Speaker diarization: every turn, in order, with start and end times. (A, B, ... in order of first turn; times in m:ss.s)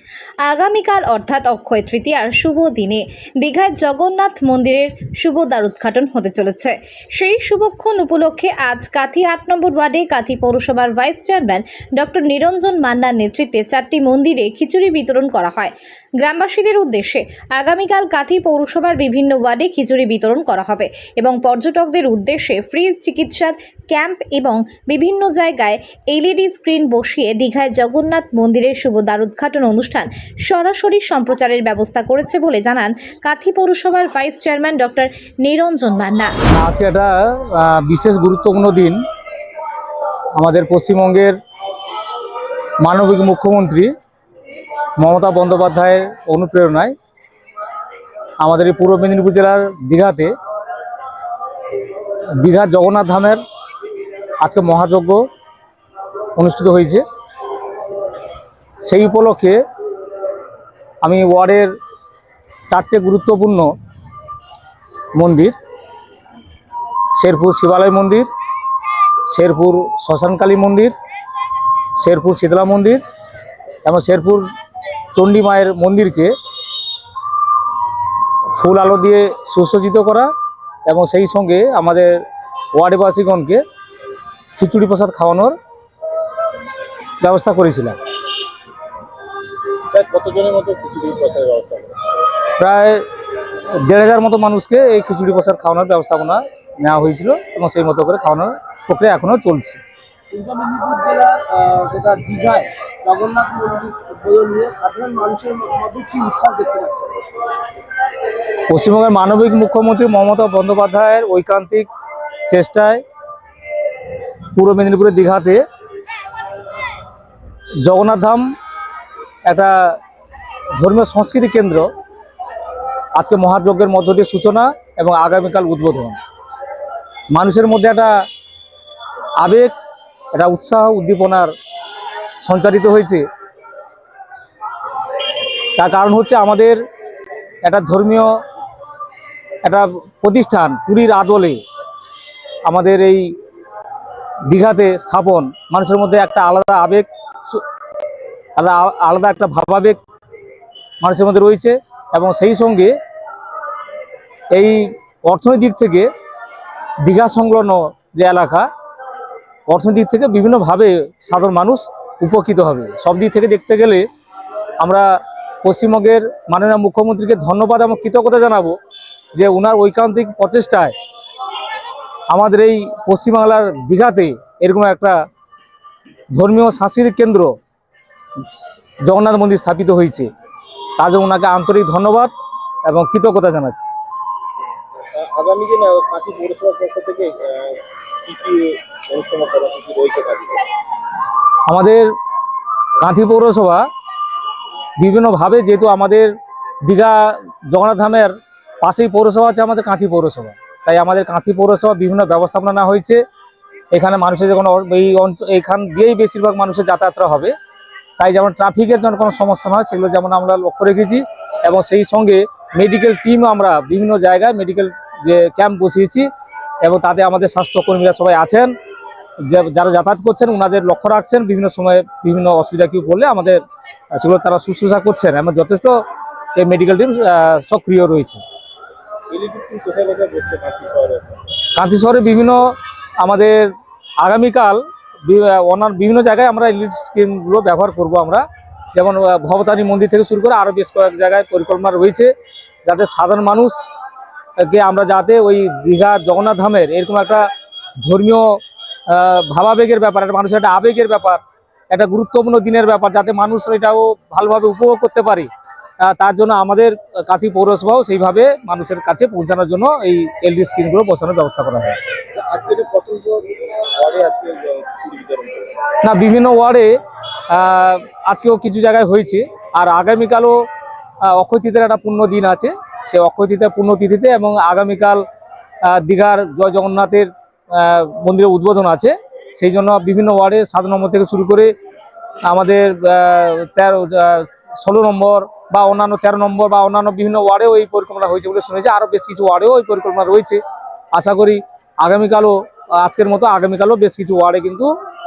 0:00.4-0:36.3 A
0:36.5-0:39.0 B
0:40.4-0:41.4 B
0:42.8-0:43.9 B
0:45.0-0:46.9 B
0:48.4-0:50.3 B
0:52.4-0:53.4 B
0:54.4-0:55.2 B
0:56.4-0:57.0 B
0:58.8-0:59.6 B
1:01.0-1:01.7 B
1:02.7-1:03.7 B
1:05.1-1:05.5 B
1:07.2-1:08.3 B
1:09.3-1:10.9 B
1:12.0-1:13.0 B
1:13.8-1:14.5 B
1:15.1-1:16.3 B
1:18.6-1:20.3 B
1:20.8-1:22.2 B
1:22.7-1:23.6 B
1:24.6-1:25.5 B
1:27.2-1:28.0 B
1:29.9-1:31.9 C
1:32.6-1:33.0 B
1:33.7-1:39.8 B
1:40.3-1:47.2 D
1:48.7-1:51.8 B
1:52.5-1:53.0 B
1:54.5-1:55.6 B
1:57.8-1:58.4 B
1:59.5-2:00.0 B
2:00.8-2:01.9 B
2:03.2-2:06.2 B
2:07.3-2:08.1 B
2:09.4-2:09.7 B
2:10.3-2:11.5 B
2:12.4-2:13.2 B
2:15.8-2:16.8 B
2:17.6-2:18.3 B
2:19.6-2:21.6 B
2:22.6-2:23.3 B
2:24.5-2:27.6 B
2:28.6-2:30.0 B
2:31.0-2:32.9 B
2:34.5-2:36.1 B
2:37.0-2:38.7 B
2:39.7-2:44.0 B
2:44.8-2:45.0 B
2:45.6-2:48.8 B
2:49.3-2:50.9 B
2:52.3-2:55.2 B
2:56.3-2:57.5 B
2:59.1-3:00.3 B
3:01.0-3:02.3 B
3:02.8-3:03.9 B
3:05.1-3:10.7 C
3:11.7-3:12.1 B
3:13.0-3:13.8 B
3:15.0-3:16.3 B
3:16.8-3:23.2 B
3:23.9-3:27.5 B
3:28.2-3:36.3 B
3:36.8-3:38.7 B
3:39.4-3:43.6 B
3:44.1-3:46.0 B
3:46.5-3:48.4 B
3:49.3-3:51.5 C
3:51.7-4:02.3 B
4:02.8-4:03.8 B
4:04.6-4:07.5 B
4:08.0-4:15.5 B
4:16.0-4:22.0 B
4:22.3-4:25.8 C
4:26.0-4:26.9 B
4:27.5-4:30.6 B
4:31.2-4:35.2 B
4:35.8-4:41.7 B
4:42.4-4:50.6 B
4:51.1-4:54.9 B